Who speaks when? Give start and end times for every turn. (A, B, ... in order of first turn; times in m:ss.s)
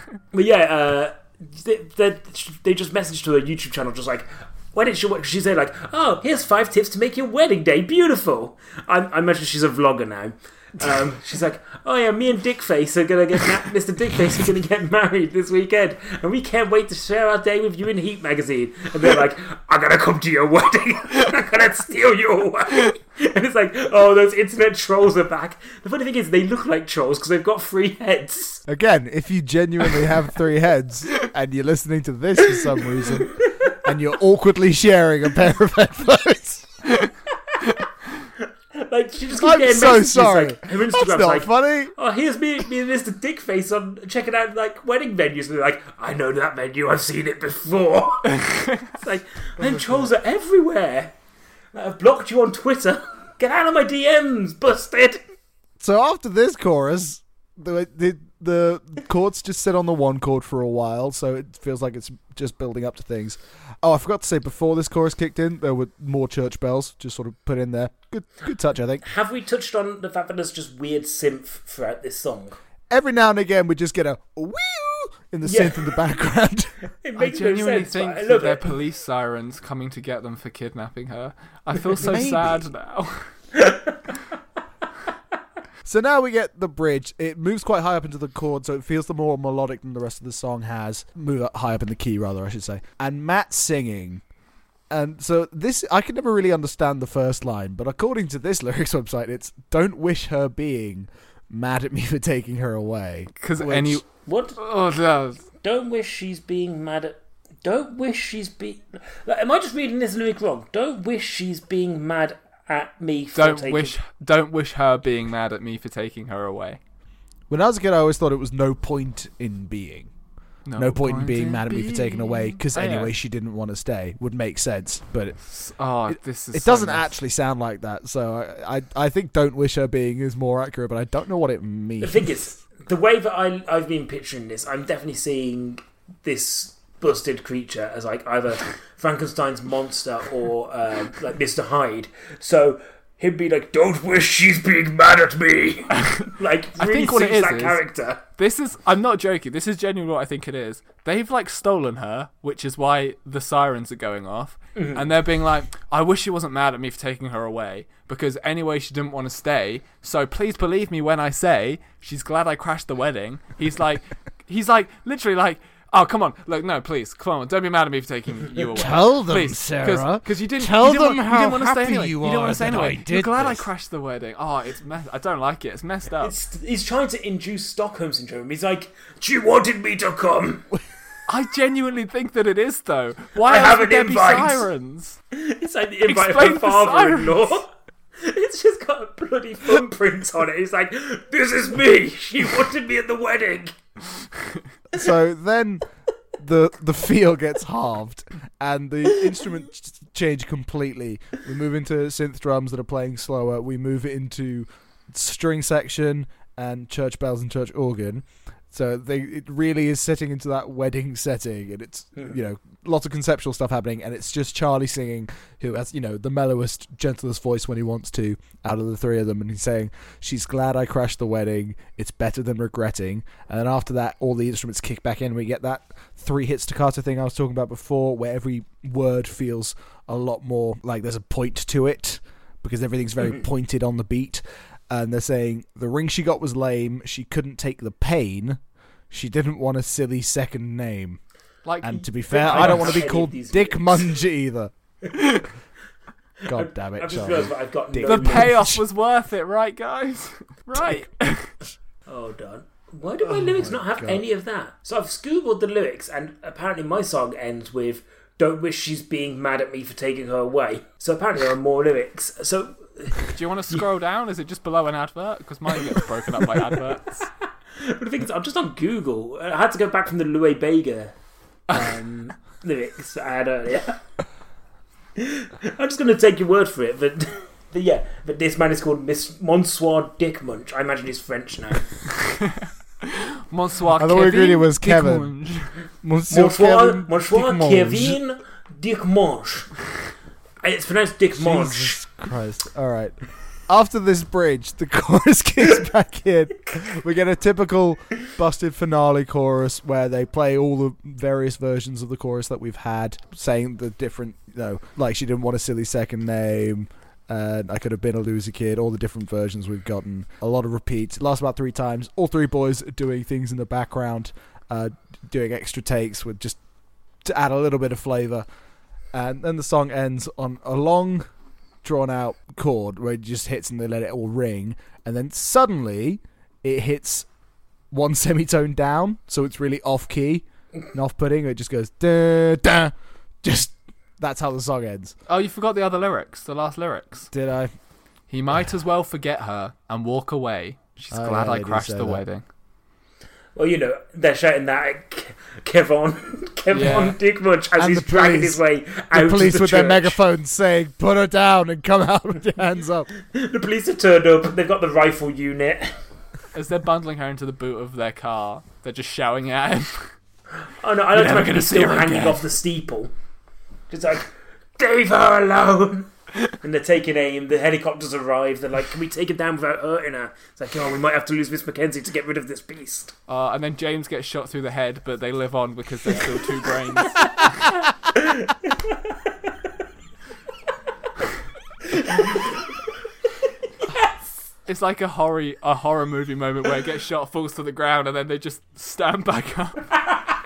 0:00.3-0:28.6 A
0:28.7-0:36.8 B
0:33.0-0:33.8 A
0:38.8-0:51.2 A
0:39.4-0:41.9 B
0:48.3-0:48.9 C
0:49.6-0:50.1 B
0:51.7-0:55.2 A
0:55.8-1:09.0 B
1:09.0-1:12.6 A
1:12.9-1:16.7 B
1:15.4-1:16.0 A
1:17.0-1:18.7 A
1:17.2-1:23.3 C
1:22.0-1:22.6 B
1:23.6-1:24.0 A
1:25.8-1:34.2 B
1:34.9-1:44.0 B
1:43.4-1:44.0 C
1:44.3-1:44.6 A
1:44.6-1:45.4 C
1:45.6-1:54.0 A
1:53.4-1:56.8 C
1:57.5-2:00.1 B
2:00.7-2:03.1 C
2:00.8-2:05.4 B
2:05.5-2:07.1 C
2:06.1-2:12.4 B
2:12.0-2:28.2 A
2:26.0-2:27.8 C
2:28.4-2:56.3 C
2:34.8-2:35.1 A
2:48.7-2:53.7 B
2:56.2-3:00.7 A
3:01.3-3:05.2 C
3:03.4-3:04.6 A
3:05.3-3:13.7 A
3:06.1-3:07.5 C
3:14.9-3:15.8 B
3:16.4-3:58.6 B
3:59.1-4:01.2 B
4:01.6-4:03.0 C
4:01.8-4:04.7 B
4:02.3-4:04.2 A
4:05.2-4:05.4 C
4:06.5-4:08.5 A
4:06.5-4:08.8 B
4:08.1-4:11.6 C
4:10.7-4:11.1 B
4:12.1-4:23.2 A
4:13.2-4:14.2 B
4:23.3-4:27.3 C
4:27.8-4:31.2 A
4:31.7-4:34.0 A
4:35.2-4:41.9 A
4:42.2-4:45.7 C
4:44.0-4:45.3 B
4:46.0-4:48.2 B
4:46.3-4:49.7 A
4:50.6-4:52.0 A
4:51.4-5:16.6 B
5:17.2-5:18.4 B
5:19.1-5:21.2 B
5:21.8-5:27.3 B
5:27.9-5:35.2 B
5:35.3-5:37.3 C
5:37.3-5:37.7 B
5:38.3-5:42.4 C
5:41.1-5:42.2 B
5:43.6-5:50.2 A
5:46.7-5:47.2 C
5:47.8-5:48.6 B
5:49.1-5:53.1 B
5:53.2-5:56.0 A
5:56.5-6:00.1 C
6:00.8-6:03.1 A
6:01.1-6:02.5 C
6:03.9-6:13.2 A
6:13.3-6:17.8 C
6:17.2-6:17.5 A
6:18.1-6:19.1 A
6:21.9-6:22.6 A
6:24.7-6:30.0 C